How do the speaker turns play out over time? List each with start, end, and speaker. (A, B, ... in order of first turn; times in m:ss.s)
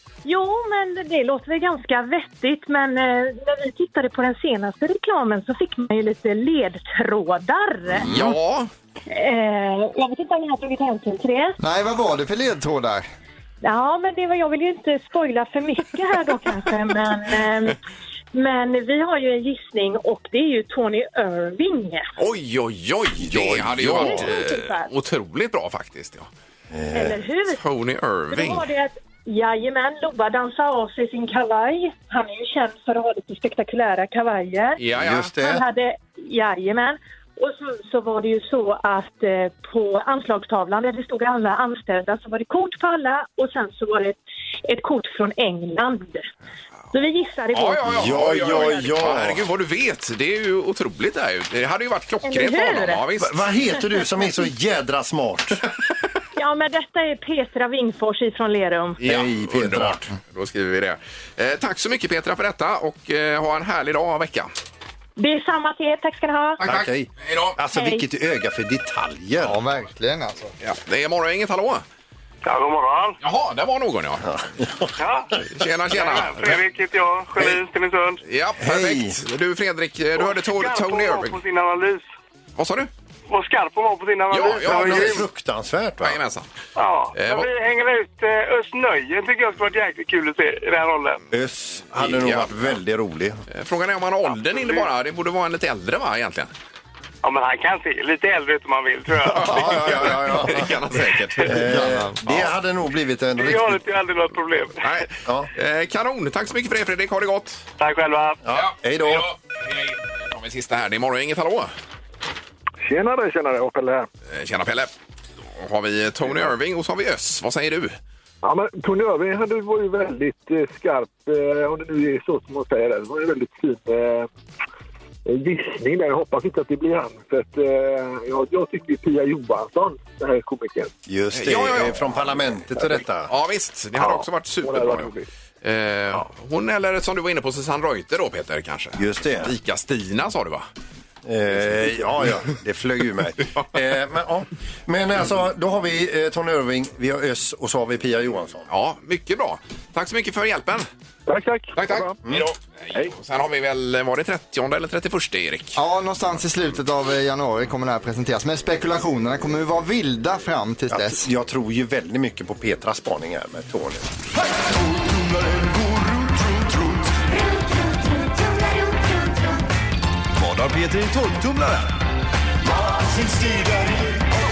0:00.2-0:08.1 A
0:08.0-0:08.7 B
0:09.1-0:11.6 A
0:11.6-0:13.1 C
0:13.6-0:17.8 A
0:18.3-0:22.1 A
0:22.2-0:26.3 B
0:23.2-0:24.3 D
0:24.0-0:24.9 A
0:26.7-0:27.2 D
0:26.9-0:27.6 A
0:27.6-0:28.7 B
0:28.3-0:34.8 A
0:34.8-0:35.3 B
0:34.9-0:35.6 D
0:35.4-0:46.3 A
0:46.9-0:47.9 A
0:47.5-0:53.4 B
0:47.9-0:49.4 D
0:52.2-0:53.0 A
0:53.2-0:55.6 D
0:56.4-0:59.0 A
0:59.0-1:04.5 B
0:59.0-1:00.0 D
1:05.2-1:06.6 A
1:06.6-1:07.6 B
1:06.6-1:09.6 D
1:07.7-1:08.0 A
1:09.4-1:10.5 C
1:10.6-1:11.8 B
1:12.4-1:13.2 E
1:13.2-1:14.4 B
1:14.3-1:14.9 D
1:15.0-1:15.3 E
1:15.5-1:16.6 B
1:15.9-1:18.2 E
1:18.2-1:21.4 B
1:18.6-1:19.2 D
1:20.2-1:22.1 E
1:22.6-1:22.9 B
1:23.3-1:25.2 E
1:24.3-1:25.2 B
1:24.6-1:26.2 D
1:26.0-1:26.5 B
1:26.8-1:31.2 E
1:27.2-1:27.5 B
1:31.3-1:33.4 D
1:32.0-1:32.5 B
1:33.5-1:36.5 B
1:34.5-1:34.9 E
1:37.2-1:39.8 E
1:39.3-1:41.6 B
1:39.4-1:40.8 D
1:41.4-1:43.8 D
1:41.6-1:42.2 C
1:43.4-1:44.9 E
1:44.8-1:47.6 B
1:47.8-1:48.4 E
1:48.4-1:49.3 D
1:48.5-1:51.7 B
1:52.8-1:54.1 F
1:54.3-1:54.9 B
1:55.6-1:58.0 B
1:58.4-2:04.3 F
2:05.3-2:10.9 F
2:11.1-2:13.3 D
2:11.3-2:12.1 B
2:13.3-2:15.1 B
2:14.0-2:15.3 F
2:15.6-2:20.7 B
2:19.0-2:19.5 D
2:21.2-2:28.7 D
2:28.7-2:30.9 B
2:31.3-2:32.2 F
2:31.8-2:35.8 B
2:35.8-2:41.3 C
2:40.9-2:44.1 D
2:44.4-2:47.1 G
2:50.4-2:52.0 G
2:52.7-2:54.3 G